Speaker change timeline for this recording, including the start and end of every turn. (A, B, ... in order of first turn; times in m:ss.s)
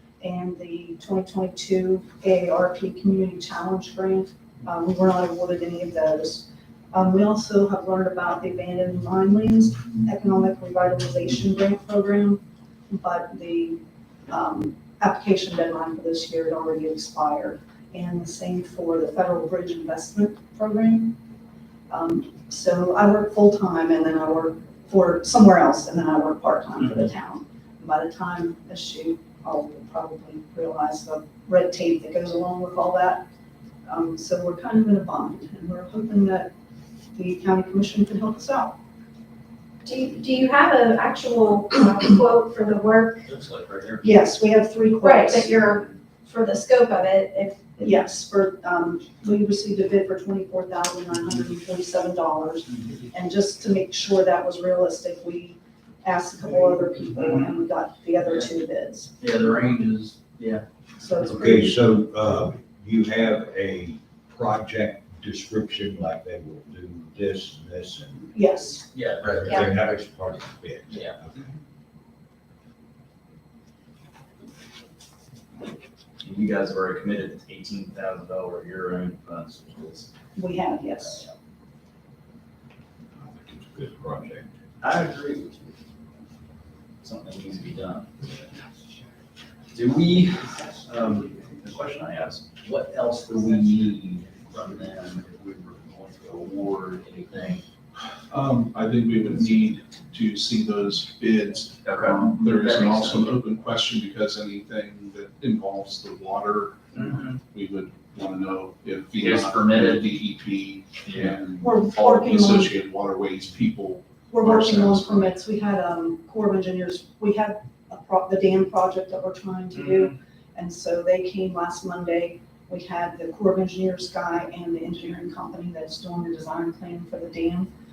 0:00.2-0:21.2 A
0:21.9-0:33.3 A
0:33.9-0:36.5 A
0:37.1-0:38.8 A
0:39.8-0:43.2 B
0:43.2-0:44.2 C
0:44.0-0:45.6 A
0:45.0-0:47.8 B
0:47.8-0:59.1 A
0:57.2-0:57.5 C
0:59.2-1:00.7 C
1:01.0-1:01.8 A
1:01.2-1:08.5 D
1:08.3-1:08.9 A
1:08.9-1:09.7 C
1:09.2-1:11.4 D
1:09.4-1:09.7 B
1:10.9-1:11.2 C
1:16.2-1:20.1 C
1:20.4-1:21.3 A
1:23.2-1:24.5 D
1:24.8-1:25.8 C
1:27.0-1:28.3 C
1:29.7-1:37.6 C
1:38.3-1:55.3 E
1:41.8-1:43.4 C
1:47.0-1:47.4 C
1:49.2-1:50.1 C
1:51.0-1:51.4 C
1:51.6-1:52.7 A
1:54.3-2:07.7 A